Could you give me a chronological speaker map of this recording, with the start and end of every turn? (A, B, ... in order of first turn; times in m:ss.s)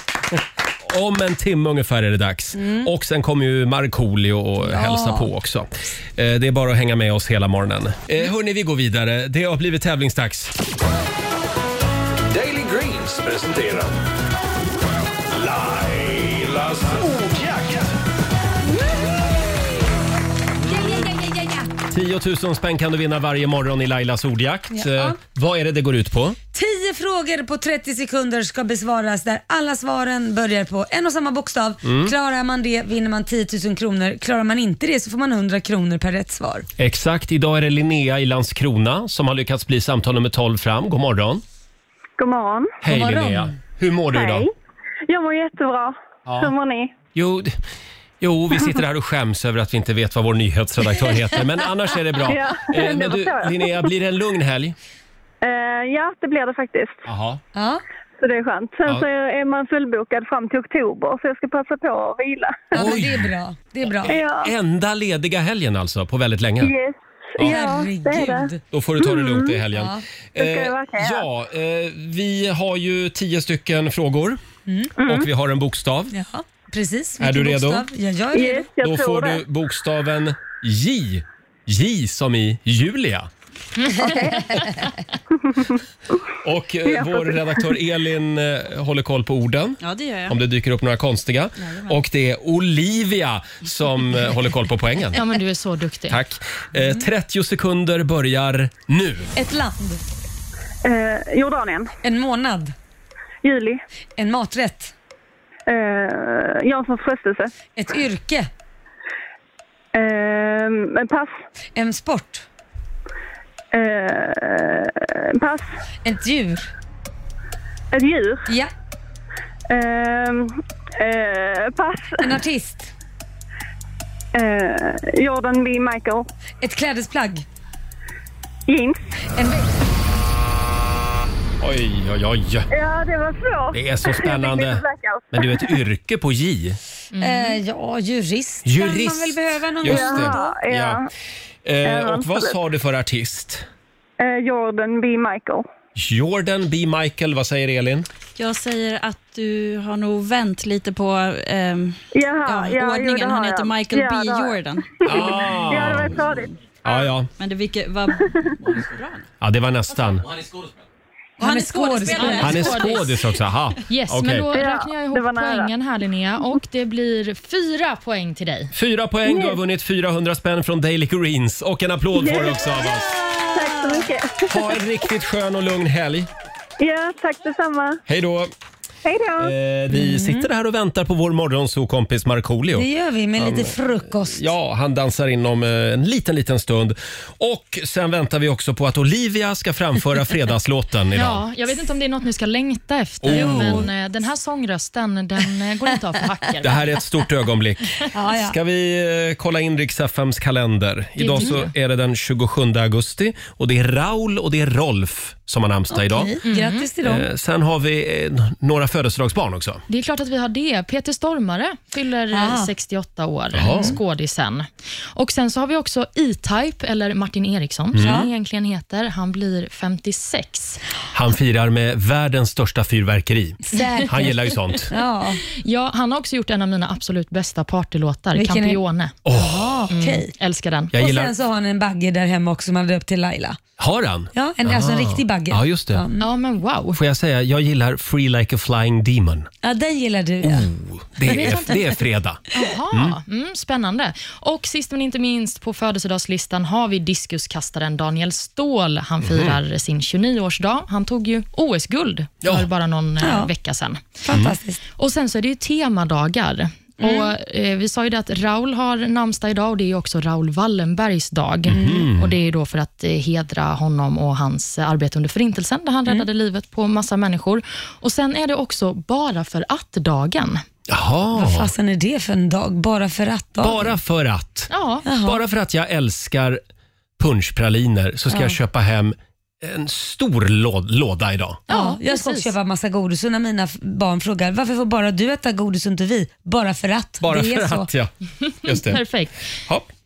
0:00.8-0:10.6 A
0:02.6-0:02.9 B
0:04.6-0:05.3 B
0:12.3-0:14.0 C
0:15.3-0:18.0 C
0:20.7-0:21.1 A
0:20.7-0:21.7 B
0:21.9-0:26.4 A
0:24.7-0:25.2 B
0:26.5-0:36.7 B
0:31.8-0:32.1 A
0:36.8-0:41.4 A
0:42.2-0:42.8 D
0:42.8-0:44.5 A
0:42.9-0:43.6 B
0:44.1-0:44.5 D
0:45.1-0:46.9 D
0:46.3-0:46.5 A
0:47.2-0:47.6 A
0:48.2-0:54.8 A
0:52.3-0:53.9 D
0:55.4-0:57.0 D
0:57.1-0:57.4 A
0:57.6-0:57.8 B
0:58.2-1:02.7 D
1:02.7-1:04.2 B
1:02.8-1:03.3 A
1:04.1-1:04.5 D
1:04.1-1:06.7 A
1:06.6-1:08.5 D
1:07.4-1:07.7 A
1:07.4-1:08.6 B
1:08.7-1:14.4 A
1:09.1-1:10.0 B
1:10.4-1:11.2 D
1:15.0-1:15.3 D
1:15.0-1:16.1 A
1:16.1-1:18.7 B
1:17.2-1:17.9 A
1:18.3-1:19.4 D
1:18.8-1:23.3 A
1:24.0-1:24.6 D
1:25.4-1:25.8 D
1:26.4-1:35.2 A
1:26.9-1:27.5 D
1:29.8-1:30.4 E
1:35.2-1:36.2 F
1:36.1-1:39.3 A
1:36.8-1:37.0 B
1:39.4-1:40.0 B
1:40.8-1:41.9 D
1:42.0-1:42.7 B
1:43.4-1:43.8 D
1:44.2-1:44.9 B
1:45.7-1:47.5 D
1:47.8-1:48.5 B
1:49.9-1:51.4 D
1:51.8-1:52.4 B
1:53.7-1:55.7 D
1:56.0-1:56.7 B
1:57.9-1:58.5 D
1:59.7-2:02.2 D
2:02.2-2:02.9 B
2:04.3-2:06.3 D
2:06.6-2:07.5 B
2:08.7-2:09.1 D
2:09.4-2:09.7 B
2:11.6-2:12.7 A
2:12.7-2:15.7 D
2:13.7-2:16.8 A
2:17.1-2:17.6 F
2:17.2-2:20.5 B
2:18.6-2:21.0 A
2:19.9-2:21.1 D
2:21.6-2:23.7 A
2:21.8-2:22.6 D
2:24.2-2:25.7 D
2:26.0-2:28.1 A
2:28.4-2:35.2 E
2:32.1-2:36.5 D
2:35.0-2:36.2 A
2:36.8-2:37.3 A
2:37.4-2:39.3 E
2:39.4-2:40.3 A
2:40.3-2:40.7 E
2:41.4-2:42.8 B
2:41.4-2:43.0 E
2:42.0-2:43.1 F
2:42.4-2:44.5 A
2:43.9-2:48.7 F
2:44.5-2:45.7 D
2:48.7-2:53.1 A
2:49.3-2:49.6 D
2:52.2-2:52.6 D
2:52.8-2:54.1 B
2:53.5-2:54.5 D
2:54.5-2:56.3 A
2:56.8-2:58.0 D
2:58.1-2:58.5 A
2:59.0-2:59.5 D
2:59.4-3:03.7 A
2:59.9-3:00.5 B
3:02.8-3:04.4 B
3:04.3-3:11.4 A
3:11.2-3:16.8 F
3:13.2-3:13.9 A
3:13.3-3:13.9 B
3:16.6-3:26.3 A
3:18.1-3:18.6 B
3:21.2-3:21.7 F
3:25.9-3:27.2 B
3:26.5-3:26.8 F
3:27.0-3:29.8 A
3:29.9-3:40.8 F
3:32.3-3:32.7 B
3:33.5-3:34.0 A
3:37.9-3:38.2 A
3:38.0-3:38.3 B
3:41.1-3:44.9 A
3:43.6-3:45.4 B
3:45.6-3:49.2 F
3:48.3-3:50.3 B
3:49.2-3:49.8 A
3:49.9-3:50.9 F
3:50.9-3:51.4 A
3:50.9-3:53.6 B
3:53.8-3:56.0 A
3:54.3-3:56.2 B
3:56.2-3:57.0 F
3:56.9-3:59.5 A
3:59.6-4:00.7 B
4:00.4-4:03.2 A
4:01.3-4:01.8 F
4:02.5-4:14.0 F
4:09.2-4:09.6 A
4:13.2-4:13.5 B
4:14.2-4:14.8 B
4:15.0-4:30.6 F
4:17.0-4:17.3 B
4:21.7-4:22.3 A
4:21.7-4:22.0 B
4:30.9-4:31.7 A
4:31.4-4:34.0 B
4:33.6-4:34.7 A
4:34.7-4:35.0 F
4:35.0-4:35.4 B
4:35.2-4:36.6 A
4:37.2-4:41.6 A
4:38.3-4:38.6 B
4:41.7-4:42.5 F
4:41.7-4:47.9 B
4:47.2-4:48.1 A
4:48.6-4:49.0 A
4:48.6-4:49.4 F